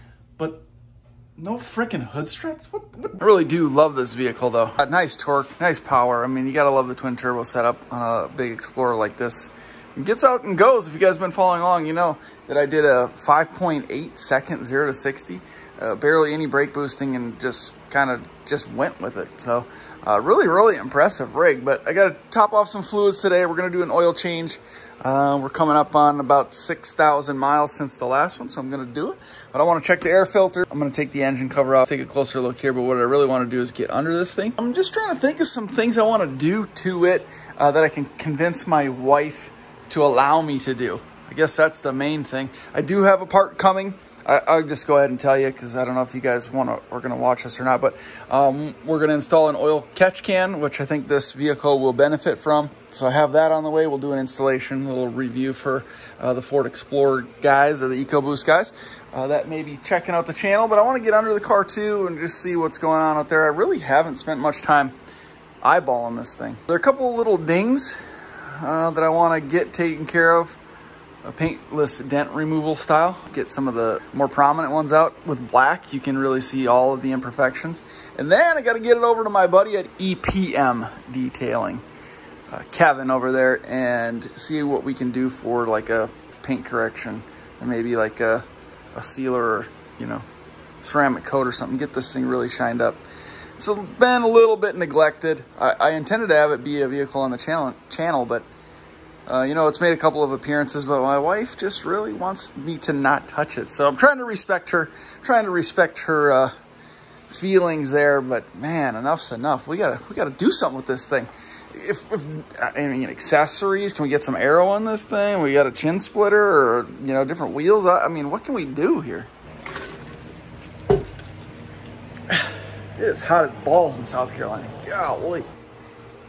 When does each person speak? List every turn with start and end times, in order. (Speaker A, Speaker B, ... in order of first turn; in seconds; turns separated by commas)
Speaker A: 0.4-0.6, Speaker A: 1.4-64.9, Speaker A: 65.6-70.6, Speaker A: 71.2-81.8, Speaker A: 82.5-90.2, Speaker A: 90.8-93.0, Speaker A: 93.6-98.5, Speaker A: 99.3-106.5, Speaker A: 107.3-119.3, Speaker A: 122.3-125.5